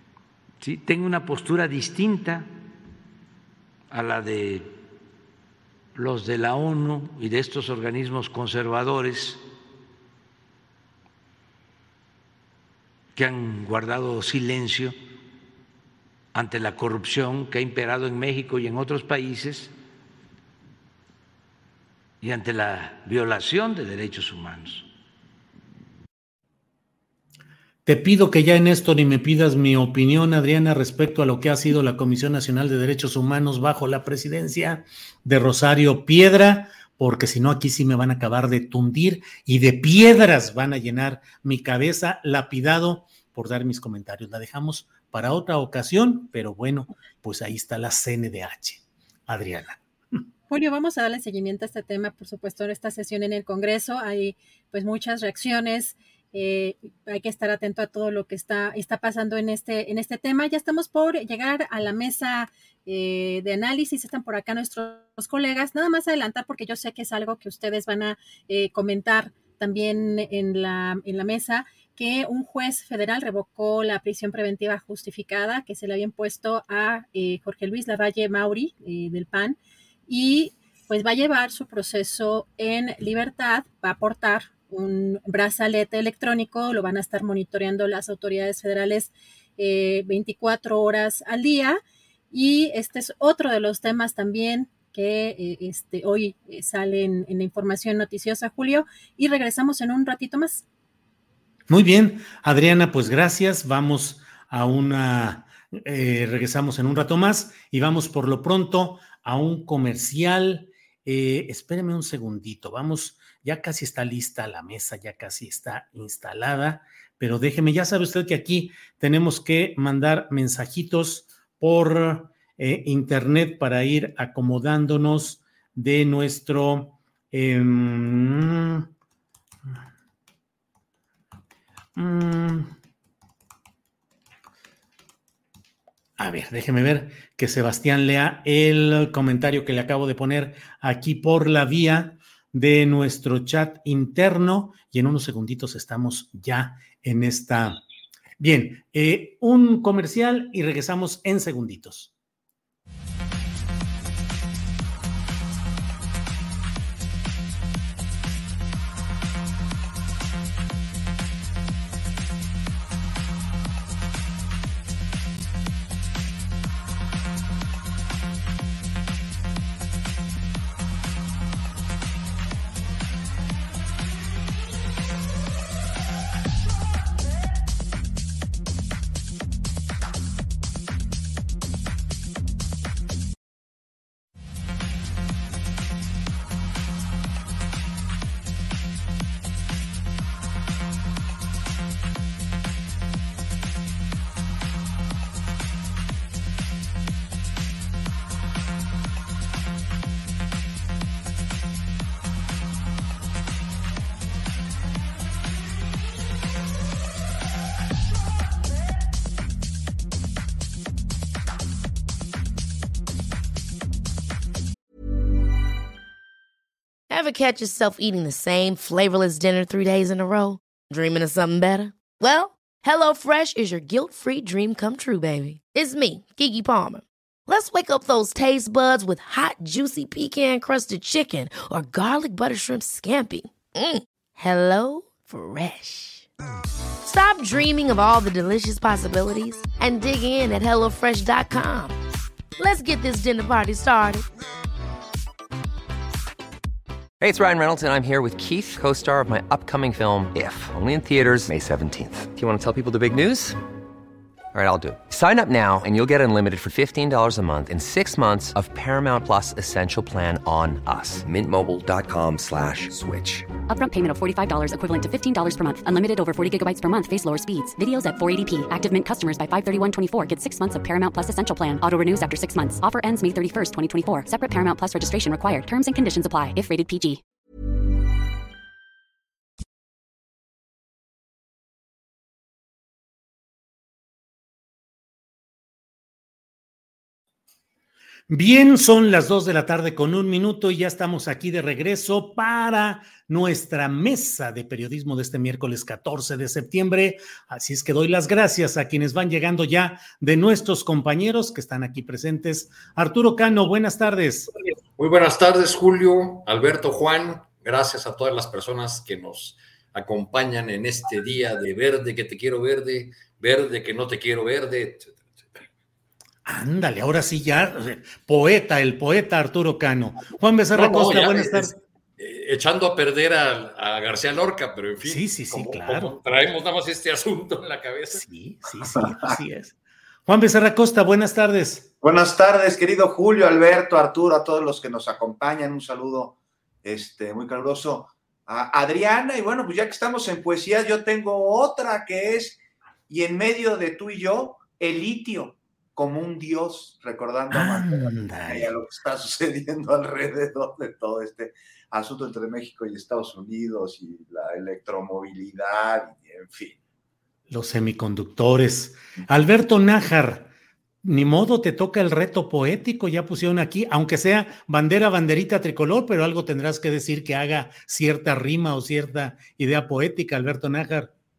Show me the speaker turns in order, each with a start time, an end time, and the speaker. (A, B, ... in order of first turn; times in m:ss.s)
0:00.6-0:02.5 A
0:03.9-0:04.7 A
0:05.9-0:09.4 A
0:13.1-0:15.0 A
0:16.3-0:19.7 A
0:22.2-0:24.9 A
0:27.8-0:50.2 B
0:50.5-1:31.8 C
1:32.3-1:40.6 C
1:41.7-2:08.9 B
2:11.9-2:12.7 B
2:16.2-2:27.8 B
2:28.4-2:32.1 B
3:37.1-3:56.3 D
3:57.0-4:02.0 D
4:02.6-4:04.3 D
4:07.2-4:13.6 E
4:14.5-4:23.5 E
4:23.7-4:37.2 F
4:48.3-5:04.5 B
5:05.0-5:15.6 G
5:16.4-5:21.7 B
5:20.7-5:28.2 G
5:25.0-5:26.2 B
5:28.1-5:31.9 B
5:29.0-5:29.4 H
5:32.0-5:56.8 H
5:47.5-5:48.7 B
5:57.5-6:00.5 B
6:01.0-6:11.1 B